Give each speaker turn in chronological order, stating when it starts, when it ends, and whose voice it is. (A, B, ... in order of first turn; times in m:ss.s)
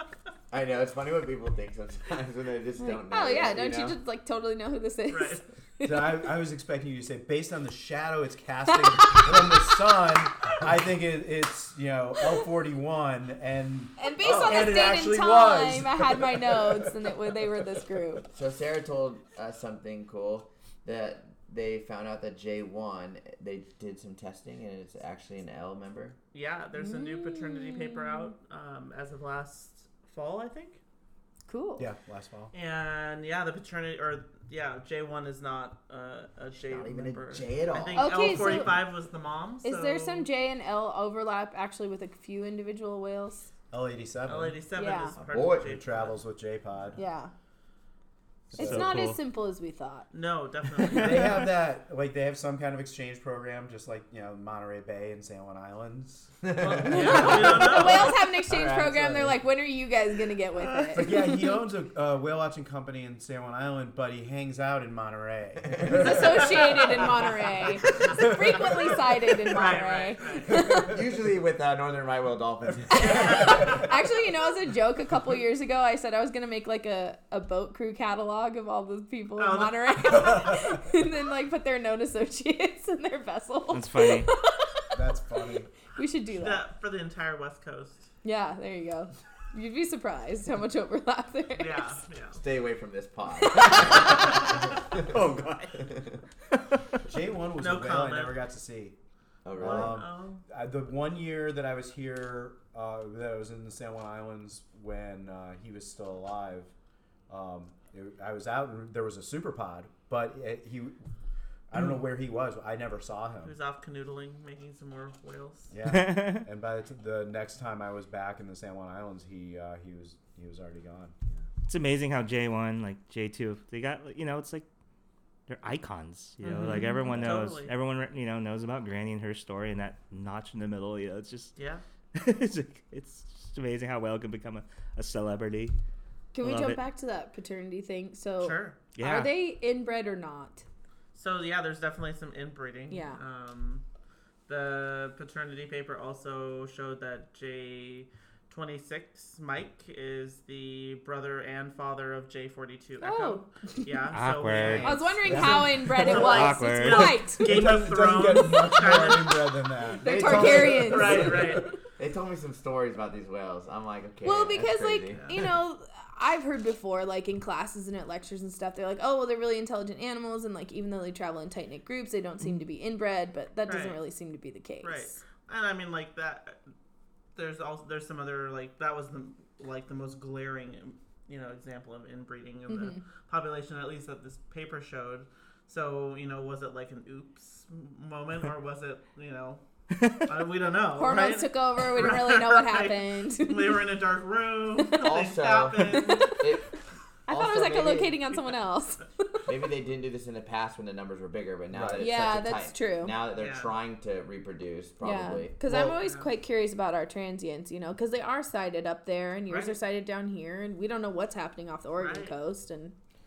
0:00.5-0:04.0 A
0:02.8-0:06.2 B
0:05.1-0:05.4 C
0:05.8-0:16.9 D
0:08.7-0:09.7 B
0:14.0-0:18.2 B
0:14.2-0:14.8 A
0:18.3-0:26.2 A
0:26.3-0:30.8 C
0:26.8-0:28.3 B
0:31.5-0:31.9 B
0:31.8-0:32.5 D
0:32.5-0:40.3 C
0:36.6-0:38.6 A
0:38.0-0:38.8 B
0:39.6-0:43.5 B
0:43.7-0:44.6 D
0:44.2-0:46.2 C
0:44.7-0:45.2 B
0:45.3-0:45.7 A
0:45.4-0:47.0 D
0:47.0-0:47.3 B
0:48.5-0:49.0 D
0:48.5-0:49.2 E
0:48.6-0:50.1 B
0:50.1-0:51.4 C
0:50.8-0:51.4 E
0:51.0-0:57.7 D
0:56.4-0:57.8 A
0:56.6-0:58.2 C
0:56.9-1:01.5 B
0:58.5-0:59.3 D
0:58.5-0:59.3 A
1:00.7-1:01.0 E
1:00.9-1:06.5 D
1:05.6-1:06.0 A
1:05.8-1:10.9 B
1:06.3-1:07.0 C
1:08.0-1:08.6 D
1:09.5-1:10.5 C
1:10.5-1:11.0 D
1:10.7-1:13.4 A
1:12.9-1:25.0 B
1:13.0-1:13.8 C
1:13.4-1:13.8 D
1:19.4-1:20.6 C
1:23.7-1:24.3 E
1:24.9-1:25.7 D
1:25.9-1:26.6 B
1:26.2-1:28.1 C
1:28.2-1:32.0 B
1:31.6-1:32.4 C
1:32.3-1:34.3 A
1:33.5-1:34.1 B
1:34.9-1:35.2 A
1:34.9-1:36.0 E
1:35.8-1:36.2 A
1:36.5-1:37.0 E
1:37.0-1:39.0 D
1:37.6-1:38.4 C
1:39.4-1:40.0 A
1:39.6-1:46.7 D
1:39.6-1:40.4 C
1:47.3-1:51.0 D
1:51.7-1:53.5 D
1:53.4-1:55.7 C
1:55.7-2:01.1 D
1:55.8-1:56.4 E
2:01.7-2:04.6 E
2:05.5-2:11.5 E
2:06.4-2:07.7 C
2:06.5-2:07.4 B
2:11.6-2:11.8 C
2:12.1-2:15.7 E
2:16.3-2:20.6 B
2:16.4-2:16.8 E
2:18.4-2:18.8 C
2:18.9-2:19.3 E
2:21.1-2:23.8 C
2:22.9-2:23.2 B
2:24.5-2:39.5 C
2:33.0-2:33.9 B
2:34.1-2:37.2 E
2:34.8-2:37.6 B
2:35.2-2:36.1 D
2:37.4-2:41.7 D
2:38.9-2:39.2 B
2:40.0-2:41.7 B
2:40.0-2:41.4 A
2:40.1-2:41.6 C
2:42.0-2:45.4 A
2:44.2-2:55.2 B
2:45.1-2:45.4 C
2:53.6-2:54.0 C
2:54.8-2:56.6 C
2:57.4-3:09.6 C
3:02.7-3:03.0 B
3:09.9-3:10.4 E
3:10.2-3:16.4 C
3:10.9-3:13.8 B
3:14.8-3:15.3 B
3:15.0-3:16.8 A
3:15.9-3:16.5 B
3:17.3-3:18.2 A
3:17.3-3:19.4 B
3:19.4-3:25.9 A
3:21.7-3:22.1 D
3:22.0-3:23.2 B
3:23.4-3:23.7 C
3:25.0-3:32.9 B
3:25.7-3:25.9 D
3:26.0-3:26.3 C
3:29.5-3:29.8 C
3:32.0-3:32.3 C